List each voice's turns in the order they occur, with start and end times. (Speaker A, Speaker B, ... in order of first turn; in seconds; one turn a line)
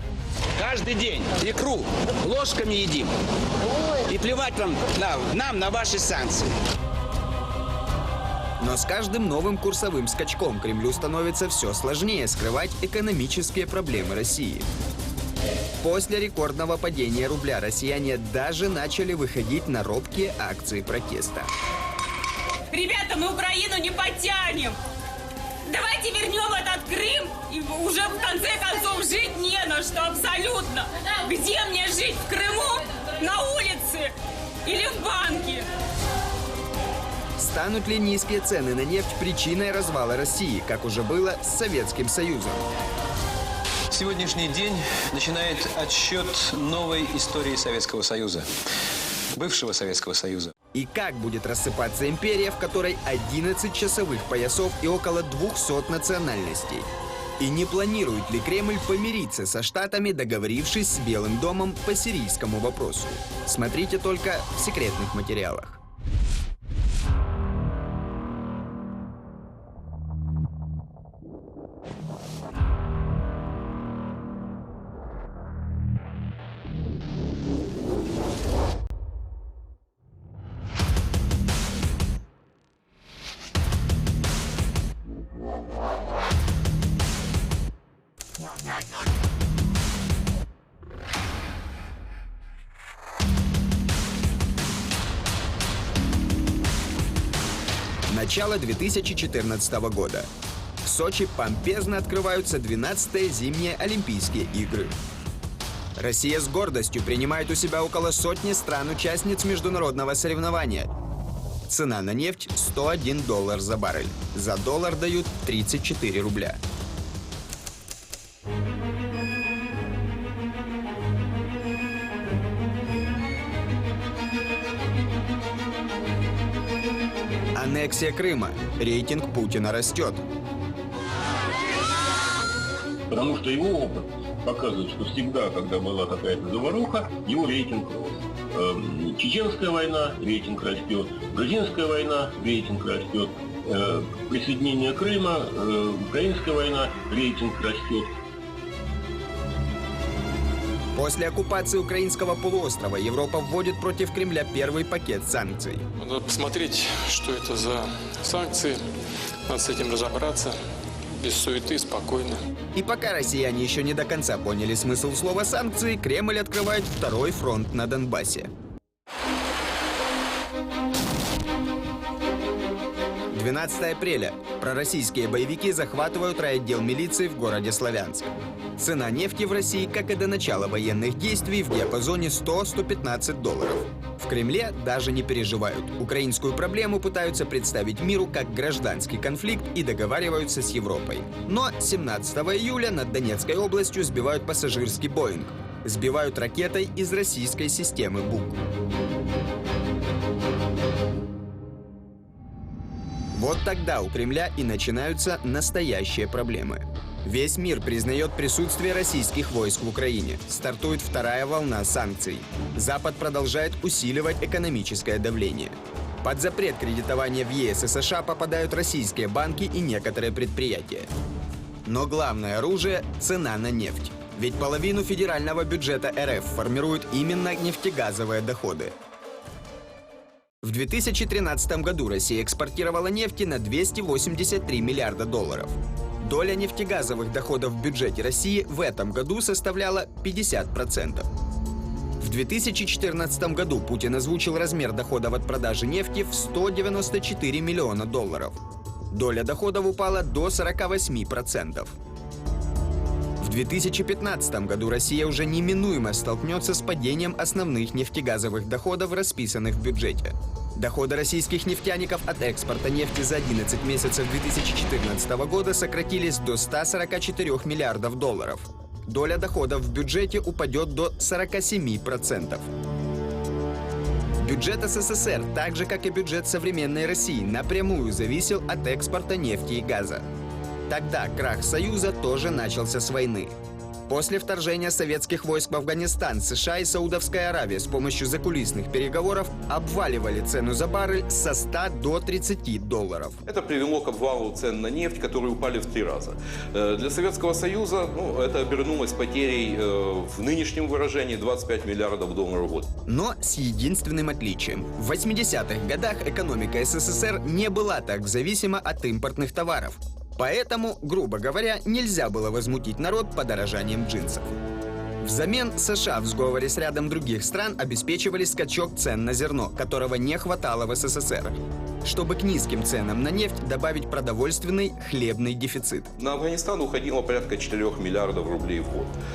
Speaker A: 0.6-3.1
Speaker A: 3.7-6.5
Speaker B: 8.6-14.7
Speaker B: 15.8-21.5
Speaker C: 22.7-24.8
Speaker C: 25.6-34.1
Speaker C: 34.6-35.7
Speaker B: 37.4-42.6
Speaker D: 43.9-48.5
Speaker D: 49.3-50.5
Speaker B: 50.7-56.9
Speaker B: 57.4-65.8
Speaker B: 98.1-100.3
Speaker B: 100.8-104.9
Speaker B: 106.0-110.9
Speaker B: 111.7-116.6
Speaker B: 127.5-130.2
Speaker E: 133.1-148.1
Speaker B: 150.9-155.8
Speaker F: 156.0-158.8
Speaker F: 159.5-160.6
Speaker F: 161.2-162.4
Speaker B: 162.7-168.5
Speaker B: 173.3-198.6
Speaker B: 203.3-221.1
Speaker B: 221.8-228.9
Speaker B: 230.6-241.3
Speaker B: 242.2-248.6
Speaker B: 249.1-252.0
Speaker B: 253.4-272.7
Speaker B: 274.4-280.2
Speaker B: 280.9-283.5
Speaker B: 284.1-293.4
Speaker G: 293.5-302.9
Speaker B: 303.1-314.6
Speaker B: 315.2-326.1
Speaker G: 326.2-329.1